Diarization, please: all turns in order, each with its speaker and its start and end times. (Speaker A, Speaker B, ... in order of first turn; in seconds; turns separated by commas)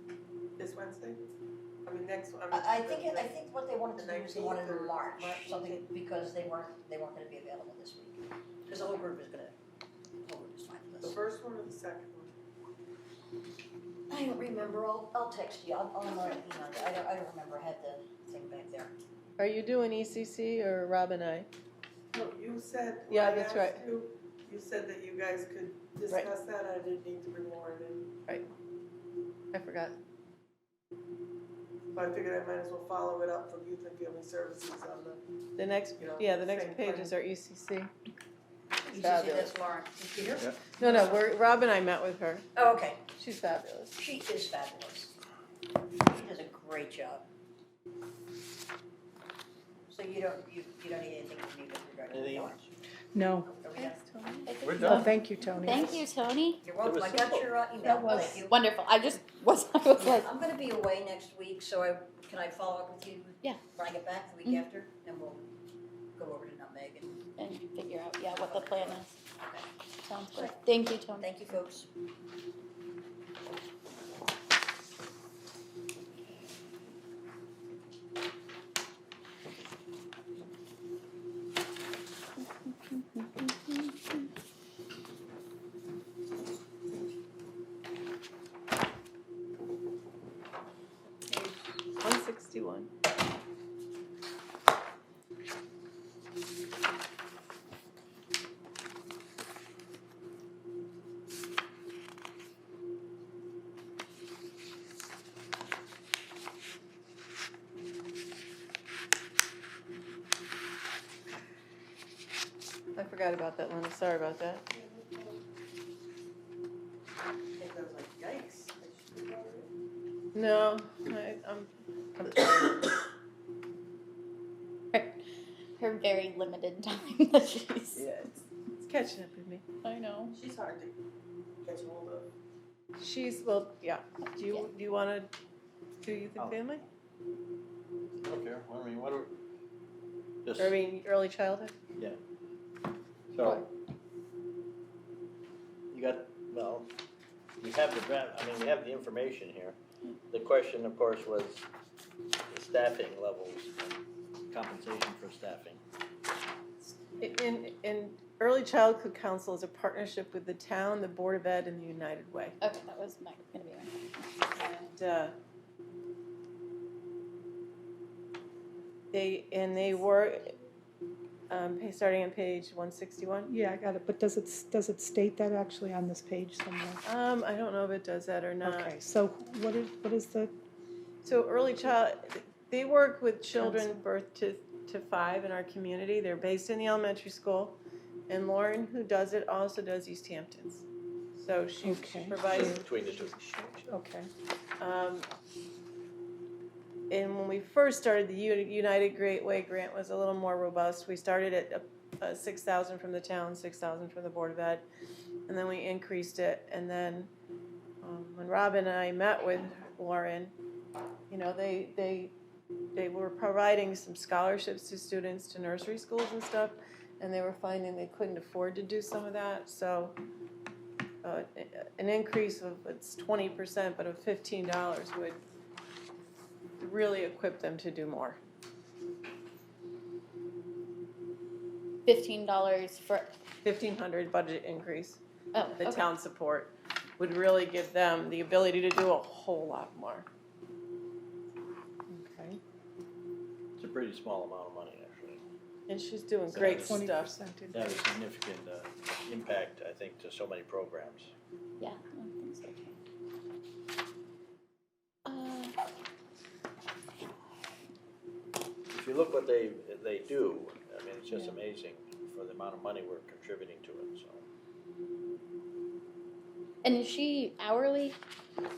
Speaker A: 0.6-1.3, Speaker A: 1.9-3.4, Speaker B: 2.5-9.6, Speaker A: 4.0-5.9, Speaker B: 10.2-11.2, Speaker A: 11.0-12.3, Speaker B: 14.1-18.9, Speaker C: 19.4-21.5, Speaker A: 22.1-28.1, Speaker C: 23.1-23.8, Speaker C: 29.5-30.0, Speaker A: 31.9-35.2, Speaker C: 35.6-37.9, Speaker A: 36.0-37.1, Speaker C: 38.9-39.6, Speaker B: 38.9-40.6, Speaker C: 40.8-42.5, Speaker B: 42.5-43.0, Speaker C: 43.2-44.0, Speaker B: 44.0-45.1, Speaker B: 46.0-47.3, Speaker B: 49.9-52.7, Speaker D: 52.1-52.5, Speaker E: 53.1-53.5, Speaker B: 53.5-54.1, Speaker C: 53.8-54.5, Speaker F: 54.5-56.6, Speaker D: 54.6-55.1, Speaker E: 54.8-55.9, Speaker B: 55.7-56.0, Speaker B: 56.6-58.5, Speaker D: 56.8-57.5, Speaker E: 57.8-58.4, Speaker F: 58.1-60.3, Speaker B: 60.0-65.5, Speaker B: 66.2-67.2, Speaker F: 67.4-69.2, Speaker B: 68.3-69.7, Speaker F: 70.0-71.5, Speaker B: 70.3-70.6, Speaker B: 71.2-71.9, Speaker F: 82.9-83.8, Speaker C: 91.3-92.9, Speaker C: 113.0-114.7, Speaker A: 114.7-115.4, Speaker A: 117.6-119.7, Speaker C: 120.3-122.9, Speaker F: 124.9-125.2, Speaker F: 125.8-128.0, Speaker C: 128.0-129.6, Speaker F: 129.8-130.3, Speaker A: 130.3-130.9, Speaker A: 131.6-132.3, Speaker C: 133.0-135.3, Speaker F: 134.4-134.7, Speaker C: 136.0-136.8, Speaker D: 138.2-139.3, Speaker D: 140.4-140.8, Speaker C: 140.6-141.7, Speaker D: 143.3-143.7, Speaker D: 145.9-146.9, Speaker D: 147.6-149.8, Speaker D: 150.3-151.7, Speaker D: 152.5-155.8, Speaker C: 157.2-162.6, Speaker F: 162.6-164.3, Speaker C: 164.5-165.3, Speaker C: 169.1-170.5, Speaker C: 171.5-173.5, Speaker E: 173.5-177.0, Speaker C: 177.1-179.0, Speaker E: 178.6-180.5, Speaker C: 181.2-190.8, Speaker E: 183.6-184.0, Speaker C: 191.4-193.8, Speaker E: 191.8-192.9, Speaker D: 192.5-193.3, Speaker E: 193.8-194.3, Speaker C: 194.8-195.3, Speaker C: 197.1-204.8, Speaker C: 205.5-207.3, Speaker C: 208.0-210.5, Speaker C: 211.3-212.3, Speaker C: 212.9-220.2, Speaker C: 221.2-225.4, Speaker C: 226.8-228.4, Speaker F: 232.1-233.3, Speaker C: 233.6-235.2, Speaker F: 235.5-236.0, Speaker C: 235.8-240.3, Speaker E: 242.1-242.6, Speaker D: 243.8-245.4, Speaker C: 245.9-247.3, Speaker D: 246.5-247.1, Speaker E: 246.7-248.0, Speaker D: 247.7-251.3, Speaker F: 251.8-252.9, Speaker F: 255.3-255.8, Speaker D: 258.9-264.4, Speaker F: 266.8-268.2